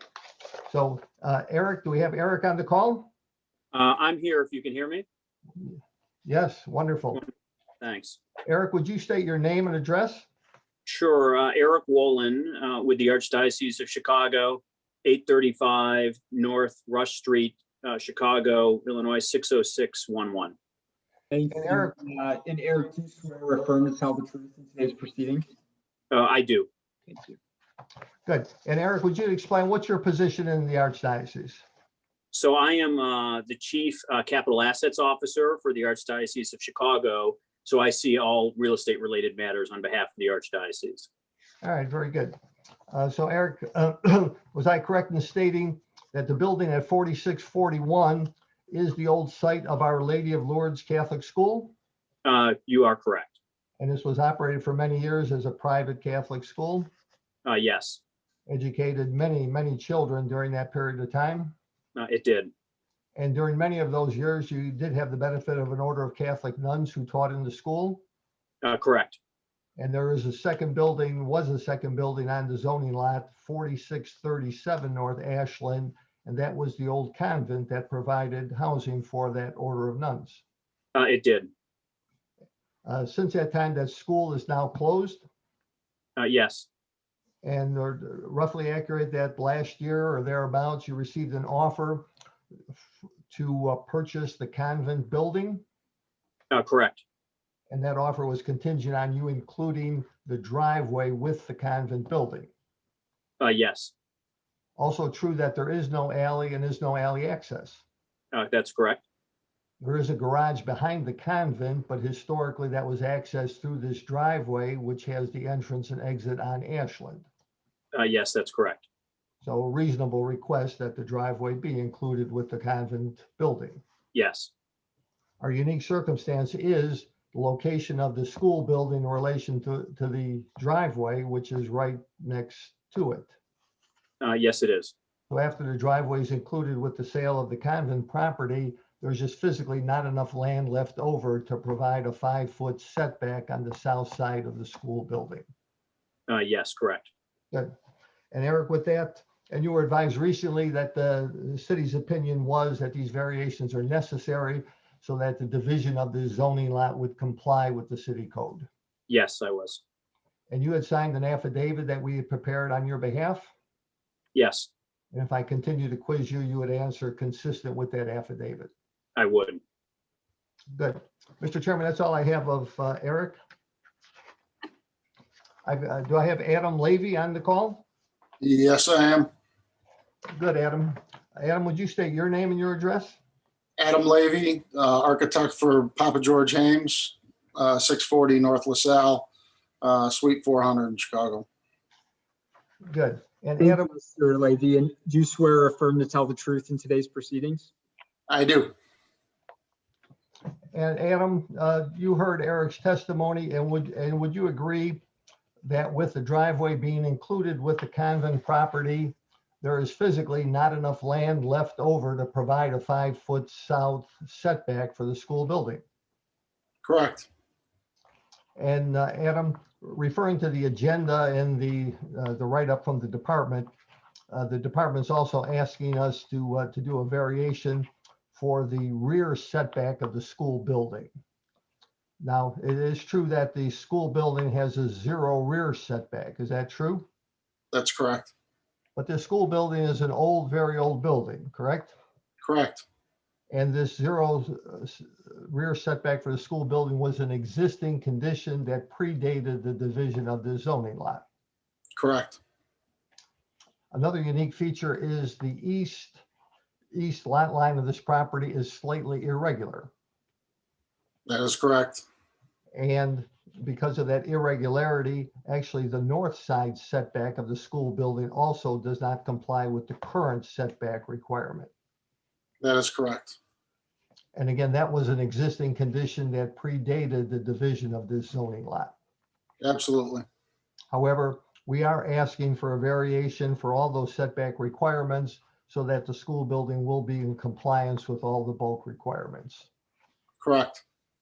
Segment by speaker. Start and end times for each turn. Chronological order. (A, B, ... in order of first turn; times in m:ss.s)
0:00.7-0:03.1 A
0:03.7-0:05.0 B
0:05.6-0:07.2 A
0:07.8-0:08.2 B
0:08.4-0:10.3 A
0:10.9-0:20.6 B
0:21.3-0:25.4 C
0:21.5-0:21.9 A
0:26.1-0:27.4 B
0:28.3-0:31.6 A
0:32.3-0:41.1 B
0:41.6-0:42.4 A
0:42.9-0:51.7 A
0:52.2-0:53.4 B
0:53.8-0:56.9 A
0:57.4-0:58.0 B
0:58.5-1:01.6 A
1:02.0-1:02.5 B
1:03.2-1:08.0 A
1:08.6-1:09.2 B
1:09.8-1:20.4 A
1:21.0-1:21.5 B
1:22.8-1:25.2 A
1:26.2-1:26.7 B
1:27.4-1:32.1 A
1:33.3-1:35.6 A
1:36.5-1:37.0 B
1:37.7-1:42.5 A
1:43.4-1:43.9 B
1:44.8-1:47.8 A
1:48.3-1:49.0 B
1:49.8-1:57.3 A
1:57.9-1:58.8 B
1:59.4-2:03.8 A
2:04.1-2:04.5 B
2:05.4-2:13.3 A
2:14.2-2:14.9 B
2:15.3-2:25.5 A
2:26.3-2:27.1 B
2:28.3-2:38.7 A
2:39.1-2:39.8 B
2:40.5-2:43.5 A
2:44.4-2:44.7 B
2:45.1-2:48.7 A
2:49.2-2:49.6 B
2:50.7-2:53.4 A
2:55.6-2:57.8 A
2:58.4-2:59.3 D
3:00.4-3:03.2 A
3:03.8-3:09.3 D
3:09.8-3:11.5 D
3:12.9-3:13.9 A
3:13.6-3:17.7 C
3:18.3-3:18.7 D
3:20.7-3:25.0 A
3:25.6-3:35.8 A
3:36.8-3:37.3 D
3:38.6-3:43.7 A
3:44.3-3:51.1 A
3:52.2-3:57.1 A
3:57.7-3:58.3 D
3:59.0-4:01.9 A
4:02.4-4:02.8 D
4:03.5-4:11.2 A
4:12.0-4:12.4 D
4:13.9-4:16.2 A
4:16.9-4:19.9 A
4:21.3-4:22.0 D
4:22.7-4:31.7 A
4:32.6-4:33.4 D
4:34.4-4:38.9 A
4:39.6-4:40.3 D
4:40.9-4:49.7 A
4:50.4-4:50.8 D